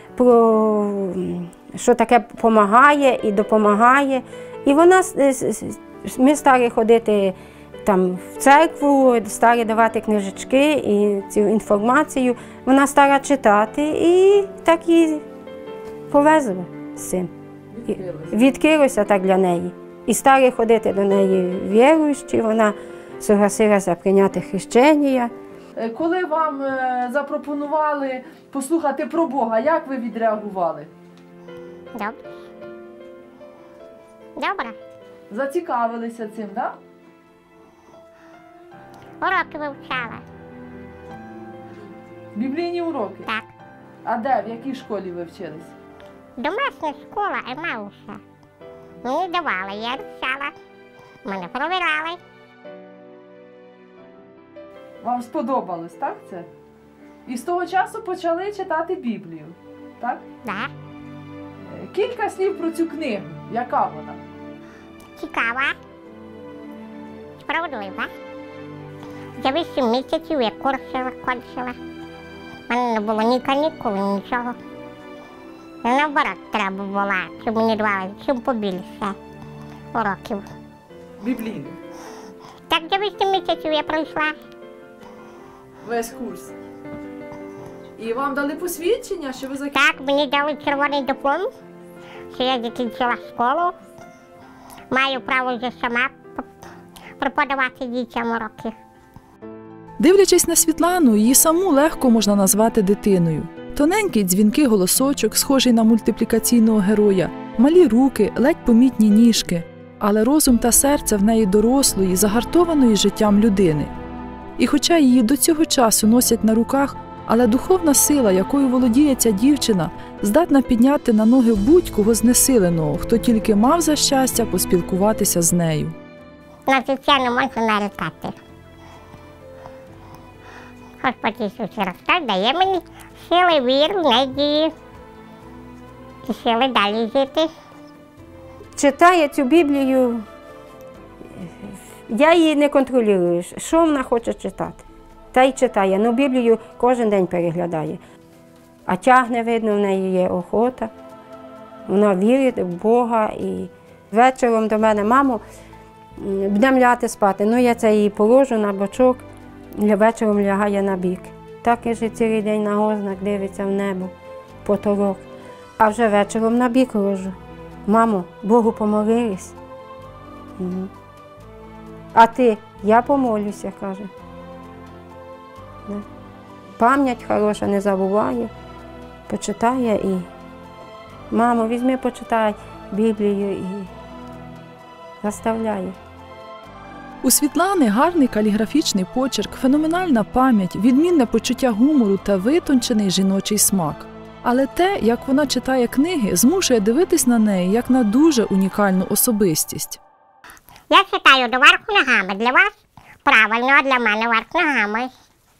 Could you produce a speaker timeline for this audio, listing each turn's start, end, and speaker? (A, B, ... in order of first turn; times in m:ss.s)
0:00.2-0:15.2 A
0:16.1-0:17.3 A
0:17.7-0:18.4 B
0:18.3-0:25.3 A
0:25.8-0:30.9 B
0:31.9-0:32.2 C
0:34.4-0:34.8 C
0:35.3-0:36.8 B
0:39.2-0:40.2 C
0:42.3-0:43.3 B
0:43.2-0:43.5 C
0:44.0-0:45.7 B
0:46.4-0:48.2 C
0:49.0-0:50.5 C
0:51.2-0:52.2 C
0:55.0-0:56.5 B
0:57.2-1:00.2 B
1:00.4-1:00.7 C
1:01.6-1:04.2 B
1:05.2-1:05.8 C
1:07.4-1:08.1 C
1:09.4-1:11.8 C
1:12.7-1:14.6 C
1:15.8-1:19.1 C
1:19.9-1:20.4 C
1:21.2-1:21.8 B
1:22.7-1:24.4 C
1:25.8-1:26.5 B
1:28.0-1:29.8 B
1:29.7-1:31.5 C
1:32.3-1:33.7 C
1:34.9-1:36.4 C
1:37.2-1:38.7 C
1:40.0-1:53.9 B
1:54.6-2:06.0 B
2:06.7-2:08.3 C
2:11.0-2:14.7 C
2:16.2-2:17.5 C
2:18.8-2:20.2 A
2:21.4-2:28.0 A
2:28.9-2:30.9 A
2:31.9-2:35.4 A
2:36.2-2:44.1 A
2:44.6-2:45.2 A
2:45.8-2:47.4 A
2:47.9-2:49.6 A
2:50.6-2:50.9 A
2:52.1-2:54.1 A
2:56.8-2:58.5 A
2:59.3-3:00.3 A
3:01.3-3:03.9 A
3:05.2-3:06.0 A
3:07.2-3:20.0 B
3:20.9-3:22.7 C
3:23.2-3:25.1 C